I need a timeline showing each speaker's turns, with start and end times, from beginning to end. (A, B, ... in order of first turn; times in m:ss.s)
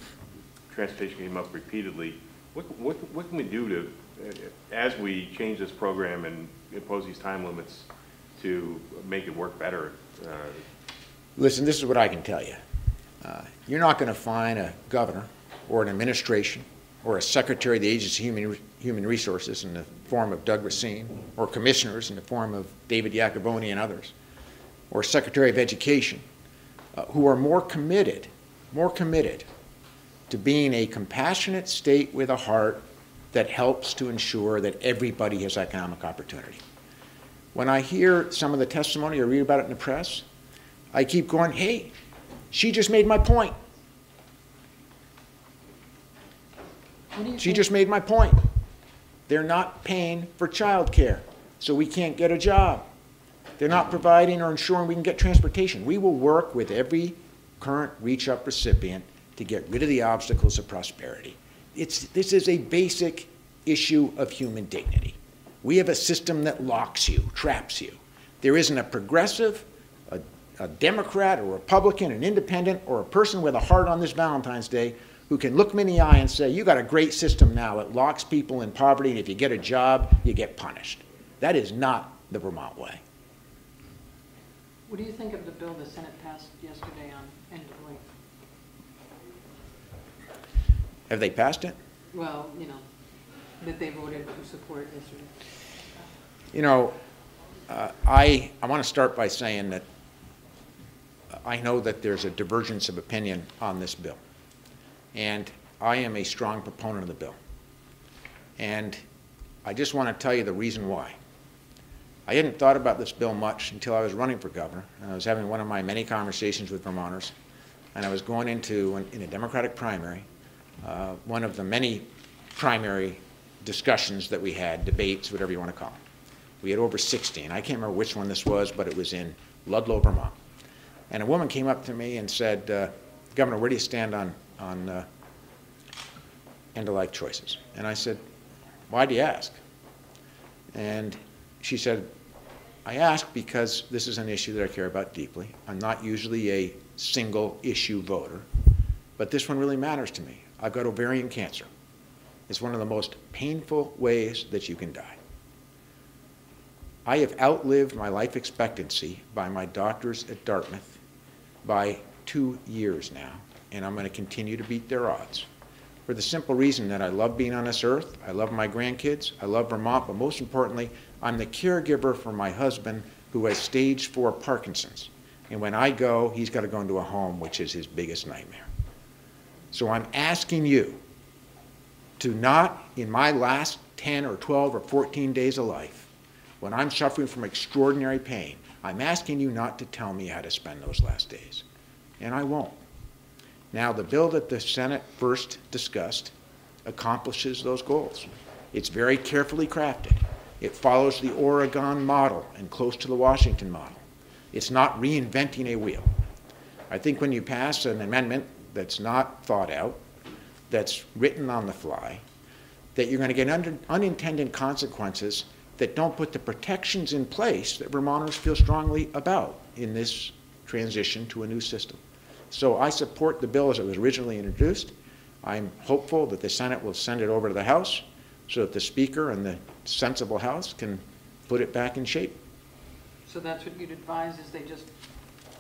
0:00.7-0:10.7 A
0:11.4-0:12.6 B
0:13.2-0:24.1 B
0:24.9-0:26.2 B
0:27.0-0:29.5 B
0:30.3-0:36.6 B
0:37.5-0:40.2 B
0:40.9-0:41.9 B
0:42.5-0:43.6 B
0:47.1-0:47.7 C
0:47.4-0:48.4 B
0:49.3-0:52.9 B
0:53.6-1:23.0 B
1:24.9-1:28.0 C
1:31.1-1:31.8 B
1:32.1-1:32.8 C
1:33.6-1:35.3 C
1:36.5-1:37.0 B
1:37.7-1:39.8 B
1:41.3-1:44.2 B
1:45.1-1:47.4 B
1:48.6-1:49.0 B
1:49.6-1:51.2 B
1:52.3-1:57.3 B
1:58.0-2:00.3 B
2:00.8-2:06.0 B
2:06.6-2:10.4 B
2:11.1-2:15.1 B
2:16.8-2:18.2 B
2:18.9-2:19.6 B
2:20.7-2:22.1 B
2:22.8-2:28.5 B
2:29.2-2:31.7 B
2:32.5-2:35.2 B
2:37.1-2:41.0 B
2:41.6-2:45.5 B
2:46.1-2:58.7 B
2:59.7-3:01.0 B
3:02.2-3:06.1 B
3:06.6-3:11.6 B
3:12.2-3:12.8 B
3:13.7-3:16.3 B
3:16.8-3:24.0 B
3:24.5-3:26.1 B
3:26.9-3:30.0 B
3:30.7-3:32.2 B
3:33.0-3:42.0 B
3:42.5-3:52.4 B
3:53.3-3:54.9 C